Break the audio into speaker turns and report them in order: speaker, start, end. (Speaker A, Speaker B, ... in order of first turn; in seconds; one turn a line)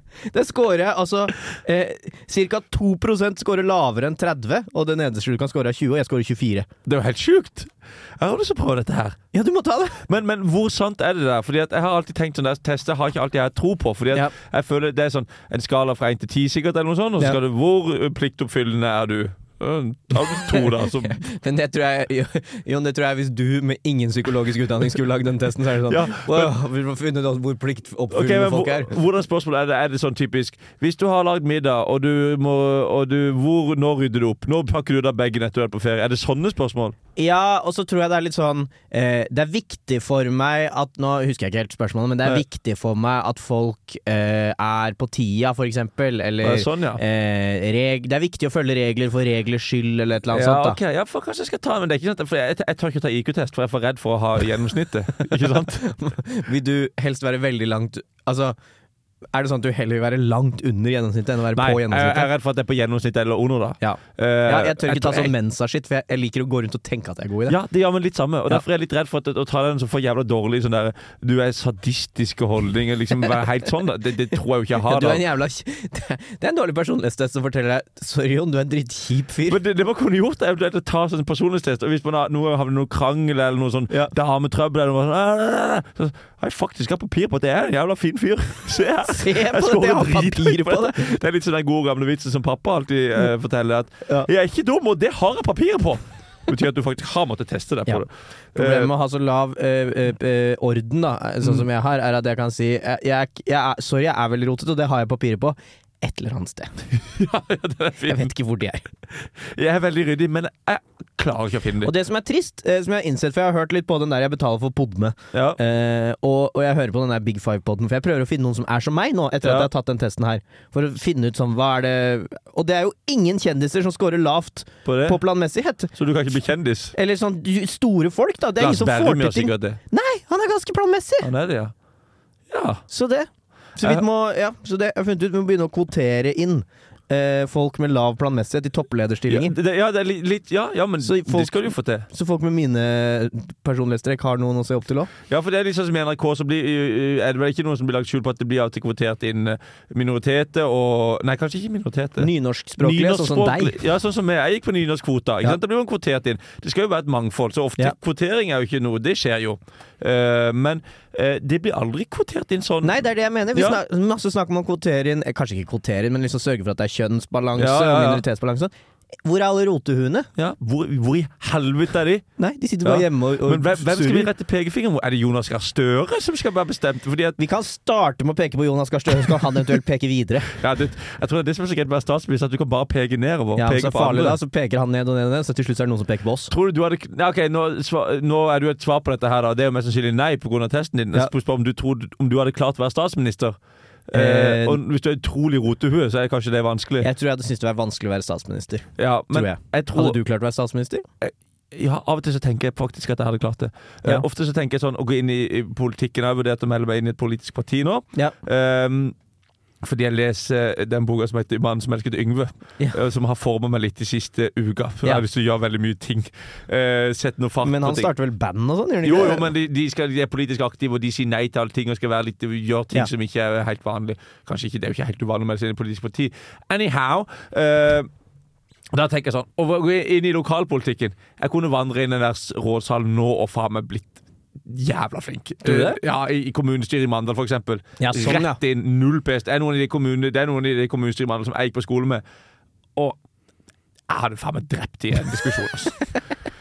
Speaker A: 0.3-6.7
Speaker B: 6.9-9.2
Speaker A: 9.3-10.0
Speaker B: 10.1-21.2
Speaker A: 20.3-28.9
Speaker B: 25.9-26.5
Speaker B: 28.1-37.0
Speaker A: 37.2-50.8
Speaker B: 46.4-47.0
Speaker B: 50.3-55.9
Speaker A: 55.2-58.6
Speaker A: 59.3-62.3
Speaker B: 61.5-65.3
Speaker A: 63.8-67.6
Speaker B: 67.5-75.2
Speaker A: 74.8-79.6
Speaker B: 79.5-98.9
Speaker A: 89.1-91.2
Speaker A: 97.9-106.7
Speaker B: 106.9-108.3
Speaker A: 108.1-108.8
Speaker B: 109.2-111.9
Speaker A: 111.8-125.9
Speaker B: 115.3-115.6
Speaker B: 119.4-119.7
Speaker B: 124.8-125.2
Speaker B: 126.0-127.0
Speaker A: 127.0-131.3
Speaker B: 128.6-129.8
Speaker B: 131.2-131.7
Speaker B: 132.5-132.8
Speaker A: 132.9-139.5
Speaker B: 133.8-134.1
Speaker B: 139.3-142.1
Speaker A: 141.0-145.1
Speaker B: 145.3-163.0
Speaker A: 152.2-153.8
Speaker A: 162.8-168.7
Speaker B: 163.5-163.8
Speaker B: 167.6-168.2
Speaker A: 169.2-170.3
Speaker B: 170.4-172.2
Speaker A: 172.4-174.3
Speaker B: 172.8-177.4
Speaker A: 177.4-180.5
Speaker B: 180.6-184.4
Speaker A: 183.6-186.5
Speaker B: 186.5-197.1
Speaker A: 194.1-194.8
Speaker A: 197.0-201.1
Speaker B: 199.0-200.2
Speaker B: 201.2-209.2
Speaker B: 209.8-218.1
Speaker A: 217.6-219.5
Speaker B: 219.0-228.1
Speaker B: 228.9-242.2
Speaker A: 235.6-236.0
Speaker A: 238.0-238.6
Speaker B: 244.1-246.0